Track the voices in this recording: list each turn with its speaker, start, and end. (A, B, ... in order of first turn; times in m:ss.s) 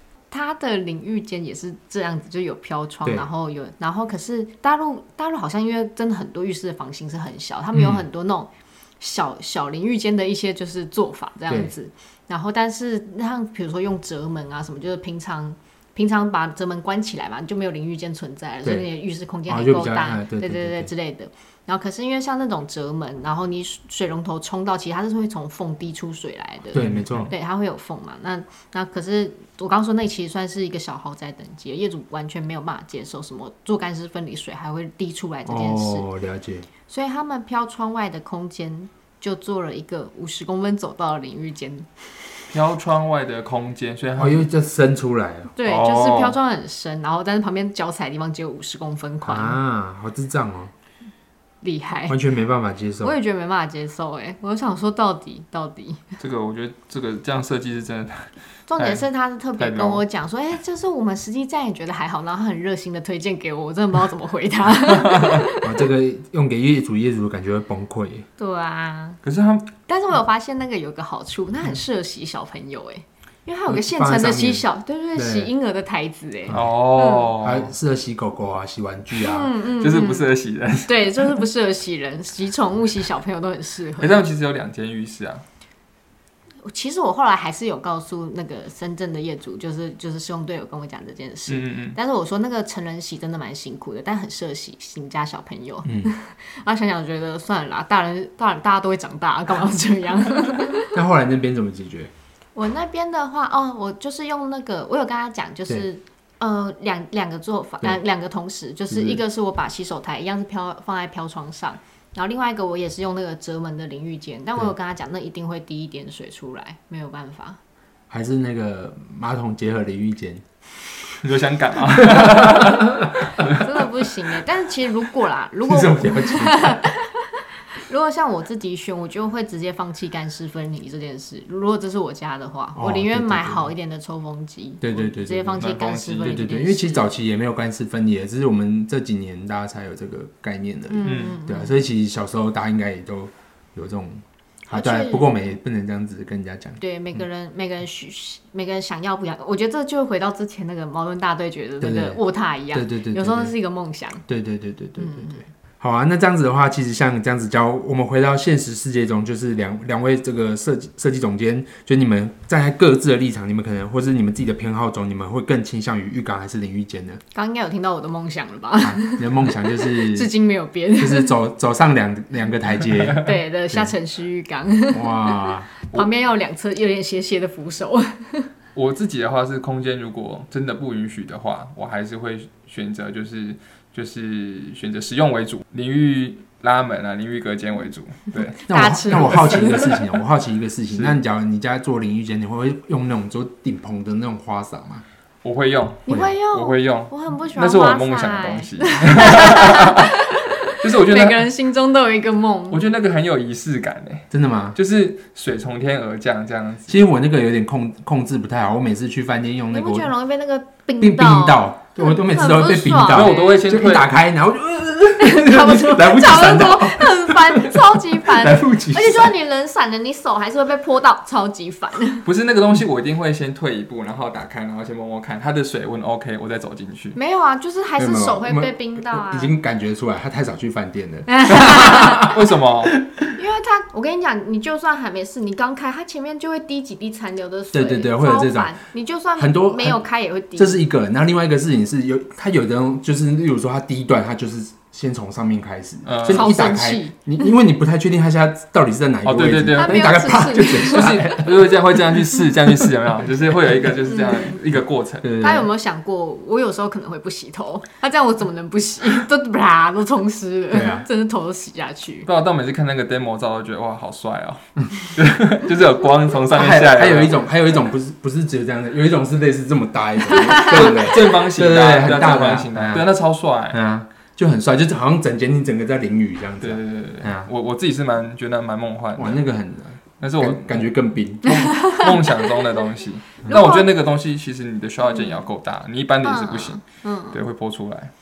0:00.3-0:36.1 A
0:07.7-0:08.0 B
0:18.6-0:18.9 B
0:19.4-0:20.9 B
0:26.7-0:27.3 B
0:26.8-0:27.3 C
0:35.4-0:36.7 B
0:36.8-0:42.0 A
0:42.5-0:44.5 C
0:44.2-0:45.5 B
0:45.6-0:49.6 A
0:45.6-0:46.4 C
0:49.2-0:50.7 B
0:51.6-0:52.2 A
0:52.1-0:53.1 B
0:53.0-0:56.0 A
0:56.2-0:59.0 C
0:58.7-1:05.7 A
0:59.6-1:00.0 C
1:05.1-1:08.2 B
1:08.4-1:09.2 A
1:09.2-1:09.7 C
1:09.9-1:17.4 A
1:13.6-1:15.5 B
1:16.5-1:16.8 B
1:16.5-1:17.7 C
1:17.4-1:19.5 B
1:19.2-1:24.2 A
1:19.8-1:21.4 C
1:24.0-1:25.4 C
1:26.6-1:41.0 A
1:31.5-1:32.0 C
1:35.8-1:36.1 B
1:40.9-1:42.1 B
1:42.6-1:57.6 A
1:48.9-1:49.2 B
1:58.1-2:00.4 B
2:01.2-2:03.6 C
2:02.0-2:02.8 B
2:03.4-2:17.1 A
2:05.6-2:06.9 B
2:12.8-2:13.7 B
2:14.8-2:26.8 B
2:15.6-2:16.4 C
2:20.9-2:21.8 A
2:21.0-2:21.4 C
2:24.7-2:25.5 A
2:26.8-2:34.2 A
2:31.8-2:33.6 B
2:34.3-2:47.2 B
2:35.0-2:35.4 A
2:47.3-2:51.3 A
2:48.8-2:50.3 B
2:51.0-2:53.9 B
2:53.2-2:58.5 A
2:54.9-2:55.7 B
2:58.8-3:08.6 C
3:08.3-3:10.0 A
3:08.6-3:15.0 B
3:09.1-3:09.6 C
3:10.9-3:11.2 C
3:15.4-3:20.1 C
3:16.1-3:22.8 A
3:20.7-3:21.5 C
3:22.7-3:27.0 C
3:24.3-3:24.8 B
3:26.9-3:30.1 B
3:29.7-3:33.6 A
3:31.0-3:39.3 B
3:33.1-3:34.1 C
3:35.2-3:42.2 A
3:42.2-3:47.2 C
3:47.2-3:49.6 A
3:48.0-3:52.4 B
3:51.3-3:52.3 A
3:51.7-3:53.0 C
3:53.3-4:00.8 A
3:57.7-3:58.8 B
3:59.4-4:00.0 B
4:00.6-4:11.5 B
4:06.0-4:06.5 C
4:06.2-4:07.2 A
4:09.2-4:15.3 C
4:09.7-4:11.3 A
4:14.0-4:14.6 A
4:15.2-4:15.7 B
4:15.4-4:22.3 A
4:20.7-4:21.1 B
4:22.2-4:27.4 C
4:26.5-4:33.1 B
4:30.3-4:31.1 A
4:30.7-4:33.8 C
4:33.7-4:37.5 B
4:36.6-4:39.4 C
4:39.2-4:41.5 B
4:40.2-4:40.9 C
4:41.4-4:48.1 C
4:41.5-4:42.4 A
4:43.5-4:43.9 A
4:45.0-4:45.5 A
4:46.2-4:47.4 A